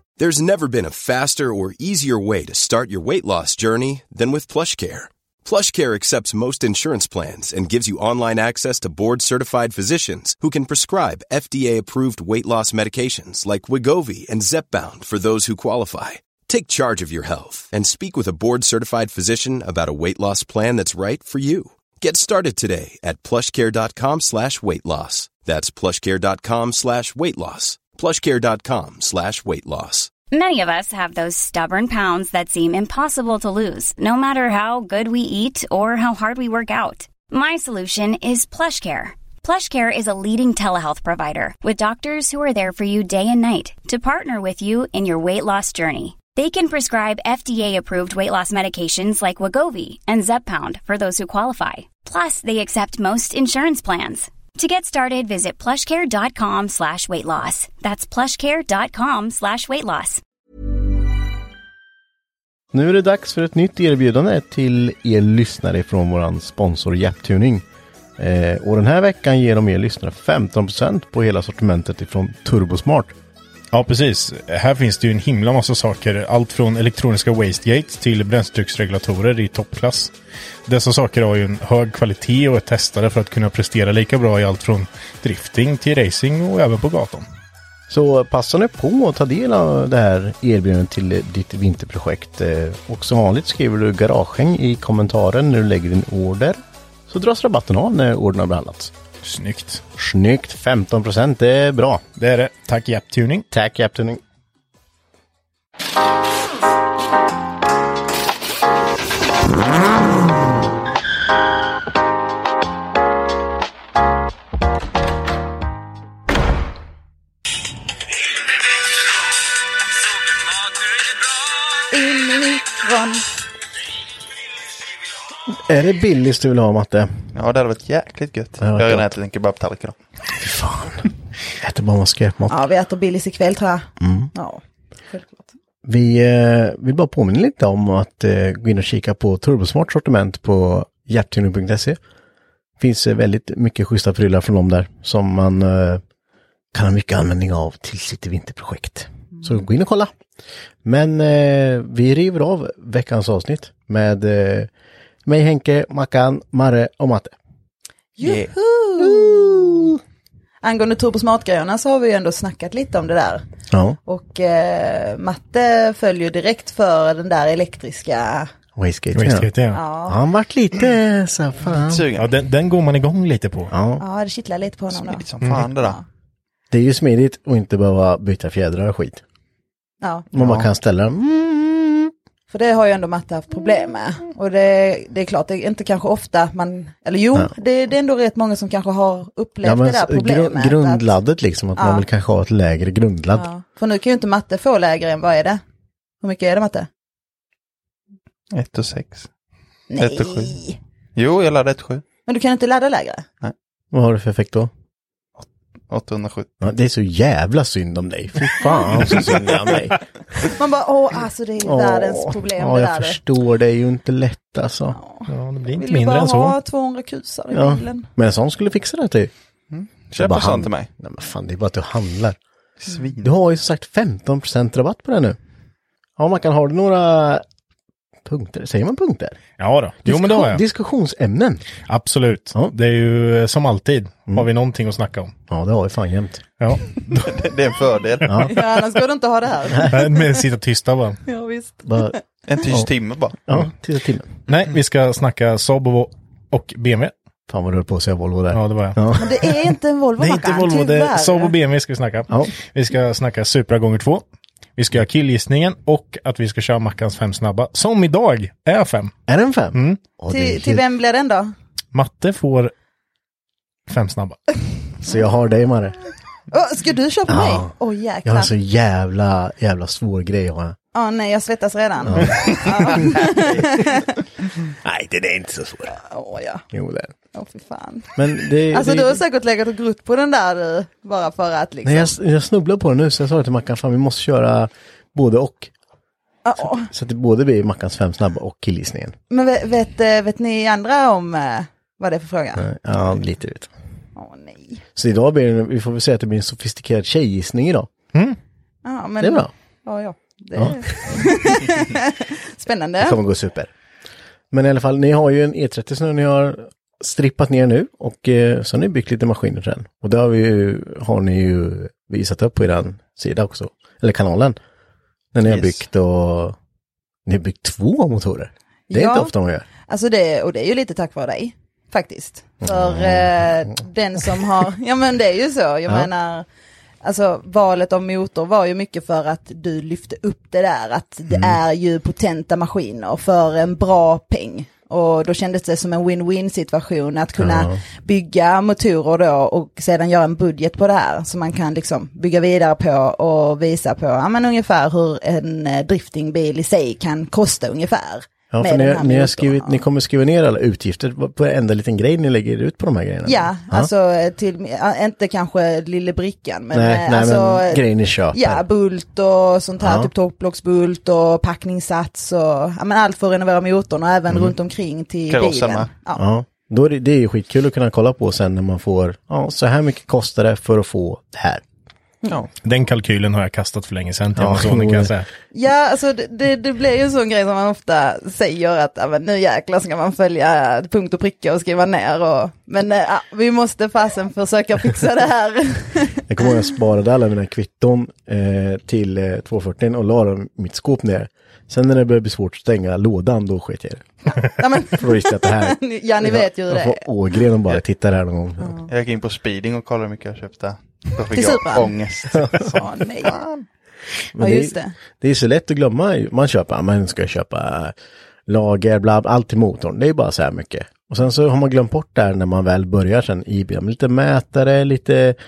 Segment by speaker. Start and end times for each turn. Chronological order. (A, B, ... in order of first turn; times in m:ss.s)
0:00.2-0:30.1 A
0:30.3-1:00.2 B
1:02.7-1:07.6 C
1:08.2-1:13.2 C
1:13.7-1:20.1 D
1:20.7-1:27.3 D
1:27.9-1:38.9 C
1:39.2-1:39.8 D
1:40.0-1:42.0 C
1:42.2-1:43.5 D
1:43.5-1:44.2 C
2:01.9-2:03.3 E
2:05.5-2:07.1 C
2:07.3-2:10.0 F
2:08.6-2:09.1 C
2:10.3-2:12.6 C
2:12.5-2:15.5 E
2:14.0-2:14.3 C
2:15.8-2:22.0 C
2:22.8-2:26.0 C
2:26.7-2:30.1 C
2:30.8-2:34.7 C
2:35.3-2:37.4 C
2:38.2-2:39.9 E
2:38.2-2:40.0 C
2:40.6-2:43.4 E
2:43.7-2:44.0 C
2:44.0-2:48.5 E
2:48.8-2:49.5 C
2:49.2-2:49.8 D
2:49.7-2:50.2 E
2:50.1-2:52.1 C
2:51.8-2:52.3 F
2:52.2-2:53.7 D
2:53.7-2:54.0 C
2:54.0-2:55.2 E
2:54.9-2:56.0 F
2:55.4-2:55.7 D
2:56.7-2:59.2 C
3:00.0-3:00.3 E
3:00.3-3:02.1 C
3:00.4-3:00.7 F
3:02.5-3:11.1 E
3:09.6-3:13.5 C
3:11.8-3:12.0 E
3:13.3-3:15.6 E
3:16.2-3:16.9 E
3:18.5-3:19.3 F
3:19.9-3:20.8 E
3:20.0-3:20.5 F
3:21.2-3:22.0 F
3:22.3-3:23.2 E
3:23.9-3:24.7 C
3:25.9-3:26.5 F
3:26.6-3:30.0 C
3:30.4-3:33.2 E
3:31.6-3:35.0 C
3:34.9-3:38.1 E
3:35.3-3:36.6 D
3:37.5-3:39.3 C
3:39.7-3:40.9 F
3:40.2-3:42.4 C
3:42.8-3:43.3 F
3:43.2-3:45.4 C
3:46.2-3:47.4 C
3:48.3-3:49.4 C
3:49.6-3:50.6 D
3:50.0-3:51.7 C
3:51.9-3:55.3 D
3:55.5-3:56.5 C
3:56.6-3:57.4 D
3:57.2-3:58.5 F
3:58.3-3:58.5 C
3:58.4-4:00.1 E
3:59.9-4:01.2 D
4:01.3-4:02.2 E
4:01.8-4:02.9 C
4:02.5-4:03.4 F
4:03.5-4:04.3 C
4:04.5-4:07.1 D
4:07.5-4:11.1 C
4:08.5-4:09.0 D
4:09.2-4:11.5 E
4:11.1-4:14.2 D
4:14.8-4:19.1 D
4:19.3-4:20.8 C
4:19.7-4:20.0 D
4:20.3-4:21.5 E
4:21.9-4:22.7 D
4:23.9-4:24.4 D
4:25.0-4:26.0 C
4:26.5-4:28.5 E
4:27.3-4:27.7 C
4:28.2-4:30.8 C
4:30.9-4:34.2 E
4:32.0-4:33.9 C
4:34.7-4:36.0 C
4:35.9-4:36.6 E
4:36.7-4:37.1 C
4:37.3-4:38.2 E
4:38.2-4:39.2 C
4:38.7-4:42.2 E
4:41.8-4:45.7 C
4:46.4-4:46.9 E
4:46.6-4:49.2 C
4:49.3-4:52.6 E
4:52.6-4:53.7 C
4:54.2-4:54.8 E
4:55.0-4:57.9 C
4:58.8-5:03.2 E
4:59.2-4:59.5 C
5:00.6-5:01.3 C
5:03.0-5:03.7 C
5:04.5-5:14.6 C
5:15.3-5:16.6 C
5:15.4-5:15.8 F
5:17.3-5:19.7 C
5:18.9-5:19.3 E
5:19.9-5:26.5 E
5:22.6-5:23.7 C
5:27.0-5:49.8 E
5:31.3-5:31.6 C
5:37.4-5:37.8 C
5:48.5-5:53.9 C
5:53.2-6:06.2 E
5:56.7-5:58.6 C
5:59.8-6:00.1 C
6:05.3-6:05.9 F
6:06.2-6:11.6 C
6:12.6-6:15.3 D
6:14.4-6:15.1 C
6:15.5-6:26.2 E
6:26.3-6:38.8 C
6:34.4-6:37.1 E
6:38.6-6:38.9 E
6:38.9-6:43.6 F
6:41.4-6:41.9 E
6:42.7-6:43.4 E
6:44.4-6:48.0 C
6:44.4-6:44.9 E
6:48.5-6:55.4 C